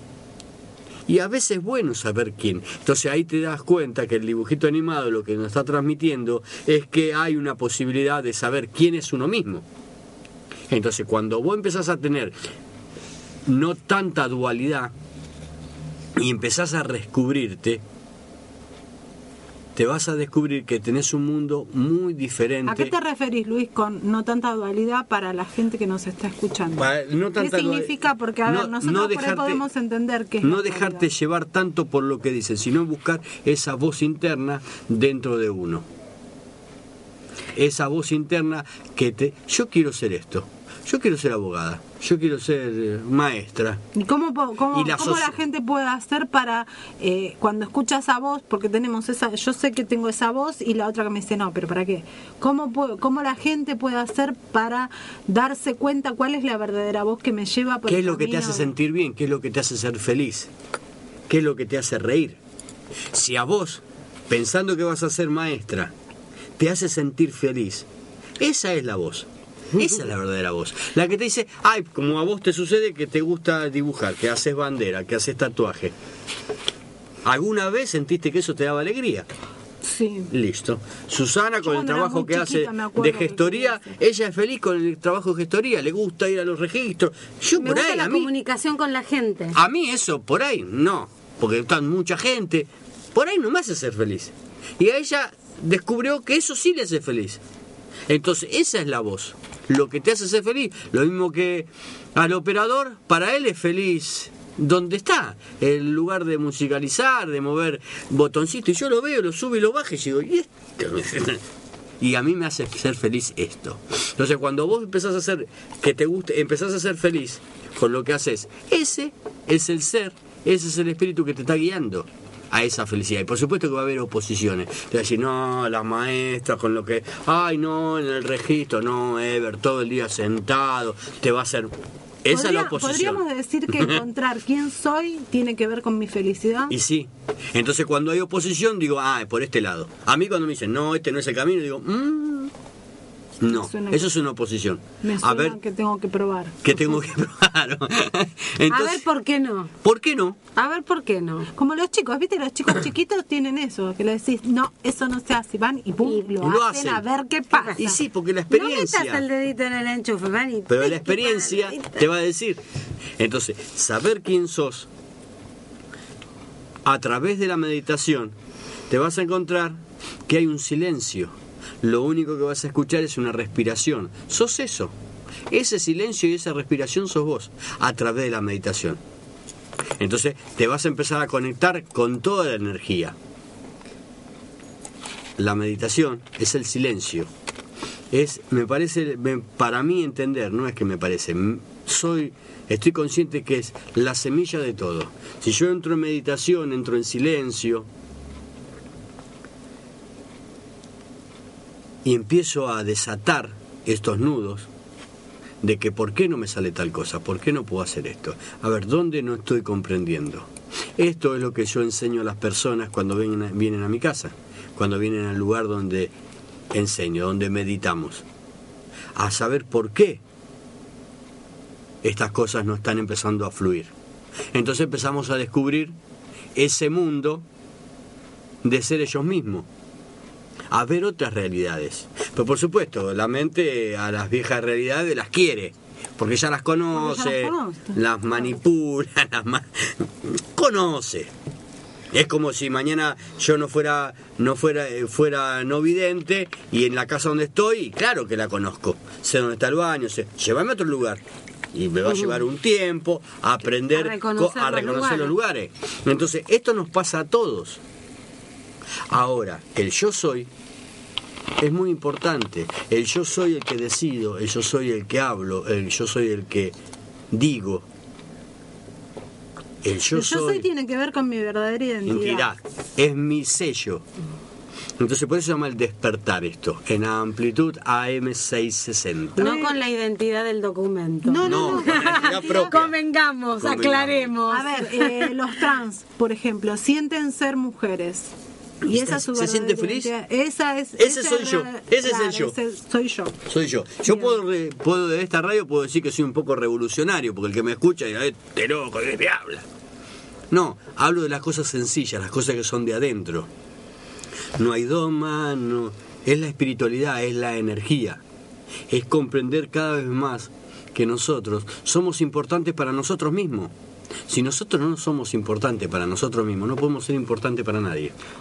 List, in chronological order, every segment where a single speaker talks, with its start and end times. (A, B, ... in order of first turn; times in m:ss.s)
0:01.1-0:09.6 A
0:10.7-0:12.4 A
0:13.5-0:14.9 A
0:16.2-0:17.8 A
0:19.8-0:22.9 A
0:22.7-0:31.1 B
0:26.7-0:29.6 A
0:30.4-0:35.9 A
0:37.6-0:43.8 A
0:44.0-0:58.7 B
0:44.7-0:45.4 A
0:57.9-1:00.5 A
1:01.3-1:02.4 A
1:03.1-1:05.9 A
1:06.6-1:07.9 A
1:08.4-1:16.0 A
1:17.2-1:19.3 A
1:19.8-1:20.3 B
1:20.3-1:28.3 A
1:21.6-1:24.0 B
1:27.6-1:29.6 C
1:29.5-1:37.4 A
1:38.1-1:51.4 A
1:52.0-2:14.0 A
2:12.3-2:16.8 B
2:16.7-2:22.5 A
2:23.4-2:25.6 A
2:23.5-2:24.1 B
2:25.0-2:26.6 B
2:26.6-2:29.0 A
2:28.7-2:29.7 C
2:29.8-2:30.4 A
2:30.6-2:31.5 C
2:31.6-2:37.9 B
2:36.4-2:37.0 A
2:37.5-2:38.0 C
2:37.8-2:39.2 A
2:38.5-2:42.0 C
2:40.7-2:42.6 A
2:43.2-2:44.9 A
2:46.8-2:48.4 A
2:48.9-2:55.0 A
2:55.5-2:59.0 A
3:00.0-3:03.2 A
3:05.4-3:07.3 A
3:08.1-3:17.9 A
3:22.0-3:24.7 A
3:25.6-3:36.1 A
3:36.7-3:38.2 A
3:39.2-3:40.2 A
3:42.0-3:43.9 A
3:44.5-3:46.0 A
3:46.6-3:47.4 A
3:48.6-3:49.7 A
3:50.7-4:01.3 A
3:56.9-3:58.5 B
4:02.1-4:17.8 A
4:13.9-4:15.4 C
4:19.1-4:20.5 A
4:21.6-4:26.8 A
4:27.3-4:27.9 A
4:29.8-4:30.6 A
4:30.1-4:32.5 B
4:32.1-4:34.1 A
4:35.0-4:39.5 A
4:39.4-4:45.3 C
4:39.4-4:39.7 B
4:41.2-4:42.8 B
4:41.4-4:42.9 A
4:43.6-4:44.3 A
4:44.5-4:48.3 B
4:48.8-4:50.1 A
4:48.9-4:53.4 B
4:51.0-4:52.6 A
4:53.5-4:59.7 A
5:00.5-5:03.5 A
5:04.6-5:08.2 A
5:08.9-5:13.7 A
5:14.3-5:18.1 A